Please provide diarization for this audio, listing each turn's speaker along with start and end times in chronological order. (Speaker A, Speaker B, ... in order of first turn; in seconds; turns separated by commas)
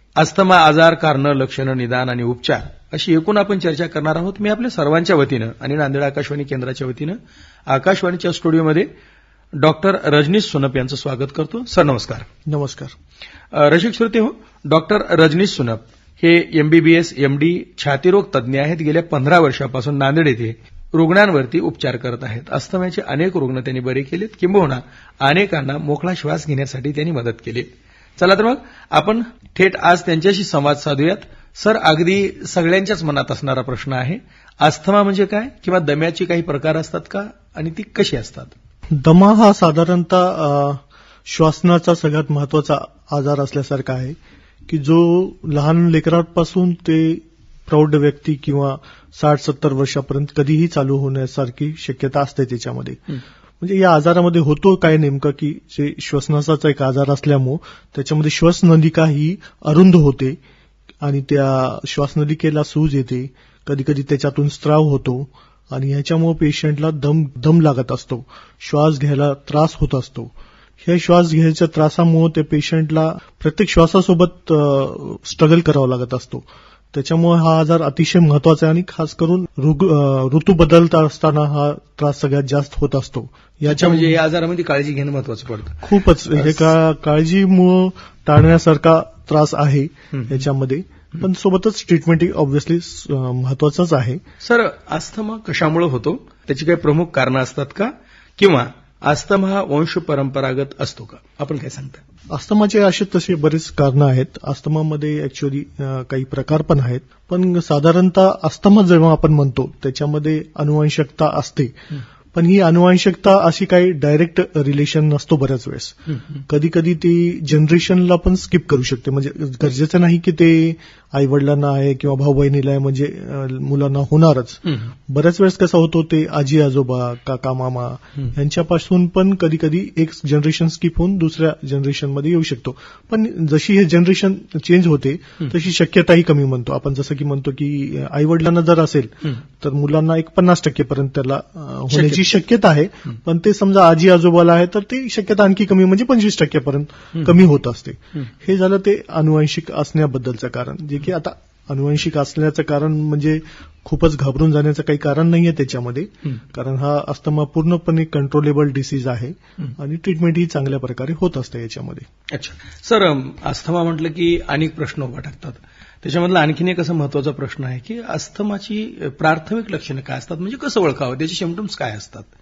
Speaker A: 0.2-7.2, Speaker A: 7.7-8.9, Speaker A: 9.6-12.3, Speaker B: 12.5-12.9, Speaker A: 13.5-38.5, Speaker B: 39.0-44.2, Speaker B: 44.7-60.4, Speaker B: 61.0-84.2, Speaker A: 83.7-86.6, Speaker B: 85.8-94.2, Speaker A: 90.1-90.4, Speaker A: 94.4-102.0, Speaker B: 102.3-111.8, Speaker B: 112.3-162.1, Speaker A: 124.7-124.9, Speaker A: 141.9-142.2, Speaker A: 162.3-172.3